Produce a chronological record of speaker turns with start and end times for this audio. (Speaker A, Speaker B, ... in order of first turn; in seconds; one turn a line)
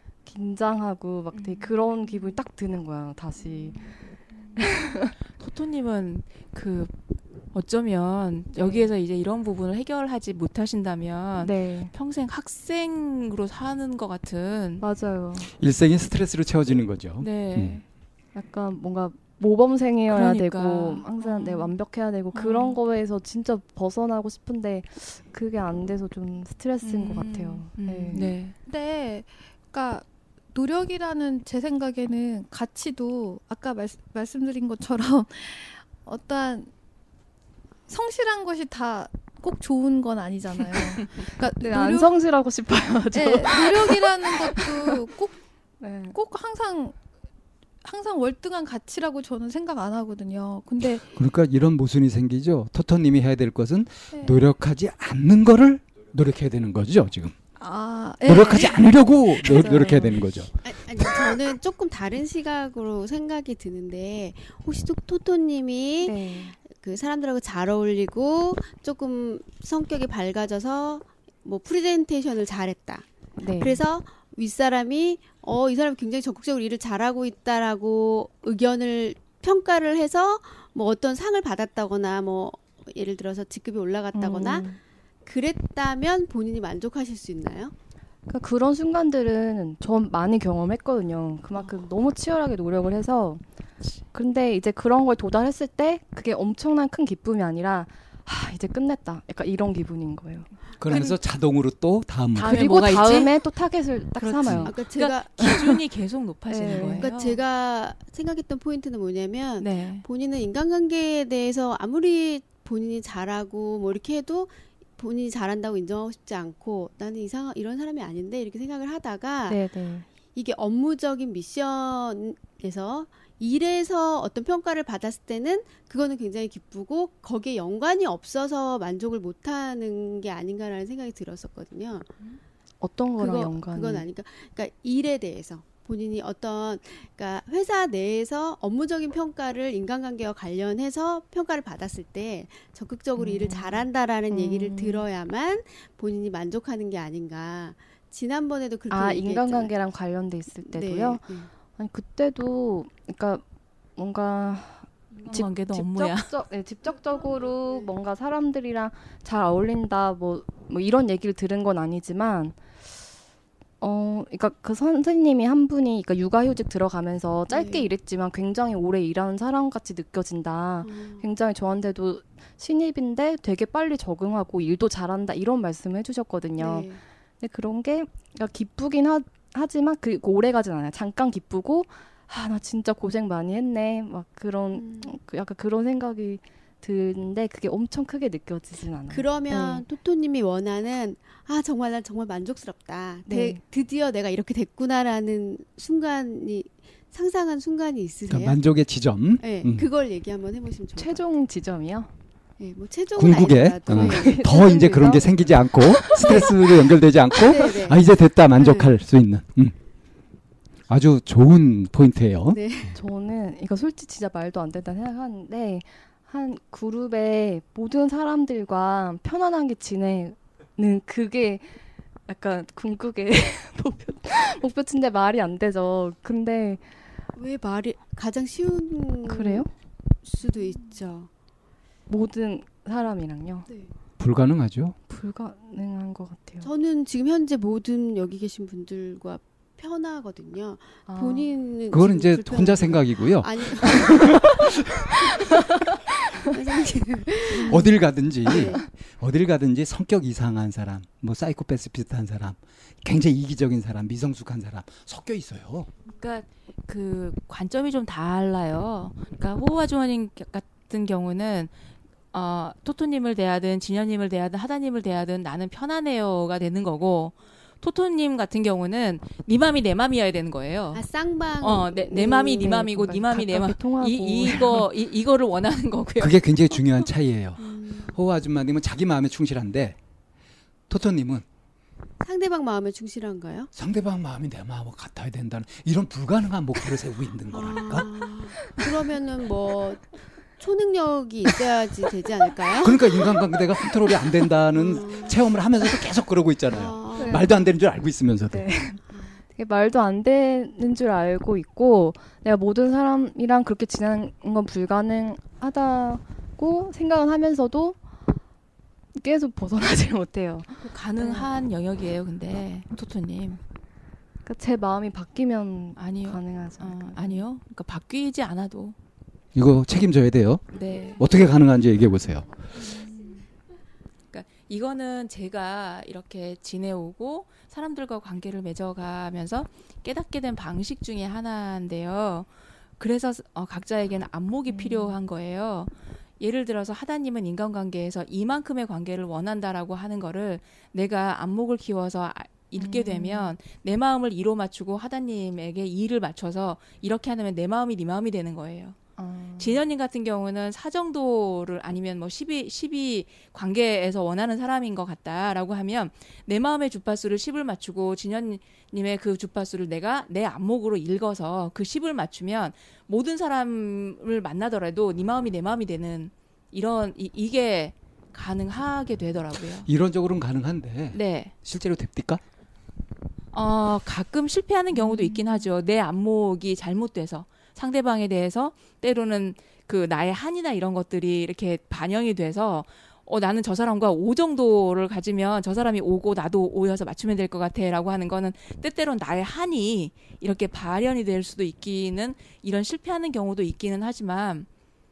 Speaker A: 0.2-3.9
Speaker B: 1.4-1.7
Speaker B: 4.6-6.9
Speaker B: 7.5-14.8
Speaker A: 8.6-8.9
Speaker A: 11.4-11.9
Speaker A: 14.8-15.5
Speaker C: 15.4-17.8
Speaker B: 17.2-17.8
Speaker A: 18.3-28.4
Speaker B: 20.1-21.7
Speaker B: 22.3-22.8
Speaker B: 26.8-28.5
Speaker D: 28.6-36.7
Speaker D: 37.9-42.2
Speaker A: 41.2-45.0
Speaker D: 43.1-45.4
Speaker A: 45.8-46.2
Speaker D: 46.1-47.0
Speaker D: 47.8-51.1
Speaker C: 51.1-57.4
Speaker D: 54.1-54.4
Speaker D: 57.6-60.2
Speaker C: 58.2-61.4
Speaker E: 60.6-73.1
Speaker A: 66.0-66.6
Speaker A: 73.4-73.8
Speaker E: 73.6-84.7
Speaker A: 84.1-84.8
Speaker E: 85.3-87.7
Speaker A: 88.3-93.4
Speaker A: 94.1-100.5
Speaker C: 100.8-102.8
Speaker A: 102.3-104.8
Speaker B: 102.4-103.4
Speaker B: 104.2-107.4
Speaker C: 104.5-104.7
Speaker E: 104.7-105.6
Speaker A: 106.5-107.1
Speaker E: 106.8-119.6
Speaker B: 109.6-110.1
Speaker B: 119.5-120.0
Speaker A: 119.5-120.0
Speaker E: 120.3-132.1
Speaker A: 132.8-134.1
Speaker E: 133.2-149.8
Speaker A: 143.2-145.1
Speaker A: 148.9-153.4
Speaker E: 150.7-151.5
Speaker A: 154.0-162.6
Speaker B: 155.3-156.3
Speaker A: 163.8-189.8
Speaker E: 167.5-167.9
Speaker E: 170.8-171.2
Speaker E: 176.6-177.0
Speaker E: 184.8-185.1
Speaker E: 189.1-198.6
Speaker A: 193.3-193.6
Speaker C: 198.3-199.9
Speaker E: 199.4-201.2
Speaker A: 201.0-202.1
Speaker E: 202.6-205.2
Speaker C: 203.2-209.8
Speaker A: 203.9-205.3
Speaker A: 206.0-206.5
Speaker E: 206.0-206.7
Speaker E: 207.4-208.9
Speaker C: 210.9-212.6
Speaker E: 212.5-213.0
Speaker A: 213.0-226.8
Speaker E: 227.3-229.7
Speaker A: 229.2-229.7
Speaker E: 230.2-231.3
Speaker A: 232.1-233.7
Speaker C: 234.2-235.0
Speaker A: 235.1-236.7
Speaker E: 236.6-248.8
Speaker A: 241.1-241.5
Speaker C: 241.9-245.1
Speaker C: 247.6-255.9
Speaker B: 256.1-261.7
Speaker B: 262.3-271.0
Speaker E: 270.9-272.7
Speaker B: 271.6-276.5
Speaker A: 272.4-274.8
Speaker C: 276.2-280.0
Speaker E: 277.6-278.2
Speaker C: 280.9-281.4
Speaker E: 282.2-283.7
Speaker C: 283.7-288.3
Speaker E: 287.5-290.0
Speaker E: 290.6-293.5
Speaker C: 292.7-298.7
Speaker E: 294.7-295.4
Speaker E: 296.7-297.6
Speaker A: 297.2-297.5
Speaker A: 298.5-299.0
Speaker A: 299.5-308.0
Speaker A: 309.1-311.5
Speaker B: 310.8-313.6
Speaker A: 314.4-317.4
Speaker B: 316.0-319.0
Speaker C: 319.6-322.6
Speaker B: 320.7-321.3
Speaker B: 322.9-323.3
Speaker B: 324.3-332.5
Speaker B: 333.0-349.0
Speaker A: 334.8-335.1
Speaker A: 342.8-343.6
Speaker A: 349.2-349.8
Speaker B: 349.6-369.9
Speaker C: 369.8-372.4
Speaker B: 371.1-371.5
Speaker B: 373.5-394.7